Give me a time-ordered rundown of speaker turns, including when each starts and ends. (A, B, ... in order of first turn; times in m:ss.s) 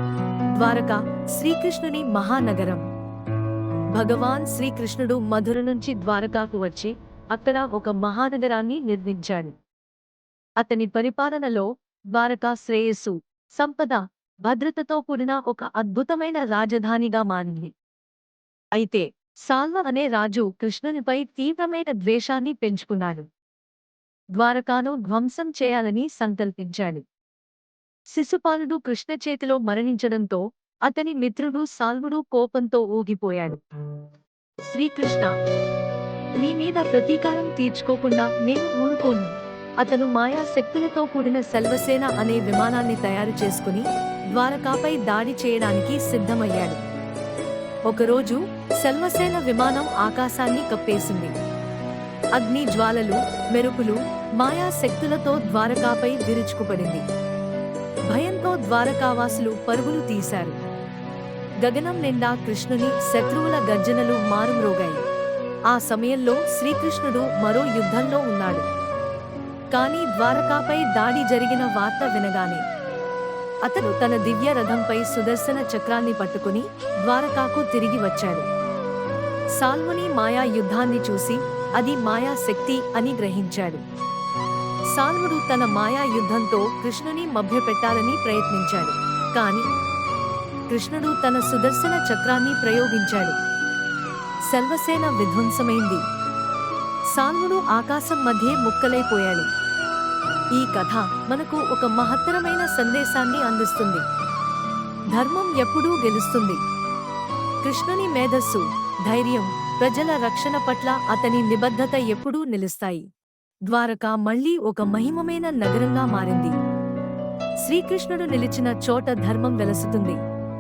0:00.6-0:02.8 A
0:03.9-0:09.6 A
0:10.6-0:17.7 A
0:18.7-0:23.3 A
0:24.4-0:27.0 A
0:28.1-0:33.6 A
0:34.7-0:35.3 A
0:36.4-0:46.8 A
0:47.9-0:51.3 A
0:52.4-0:57.0 A
0:58.1-1:00.6 A
1:01.6-1:05.0 A
1:05.7-1:08.7 A
1:09.7-1:12.6 A
1:13.6-1:18.5 A
1:19.6-1:23.8 A
1:24.9-1:29.6 A
1:30.7-1:33.4 A
1:34.5-1:36.0 A
1:37.1-1:39.5 A
1:40.6-1:44.0 A
1:45.1-1:46.6 A
1:47.6-1:53.0 A
1:53.7-1:56.5 A
1:57.6-2:00.2 A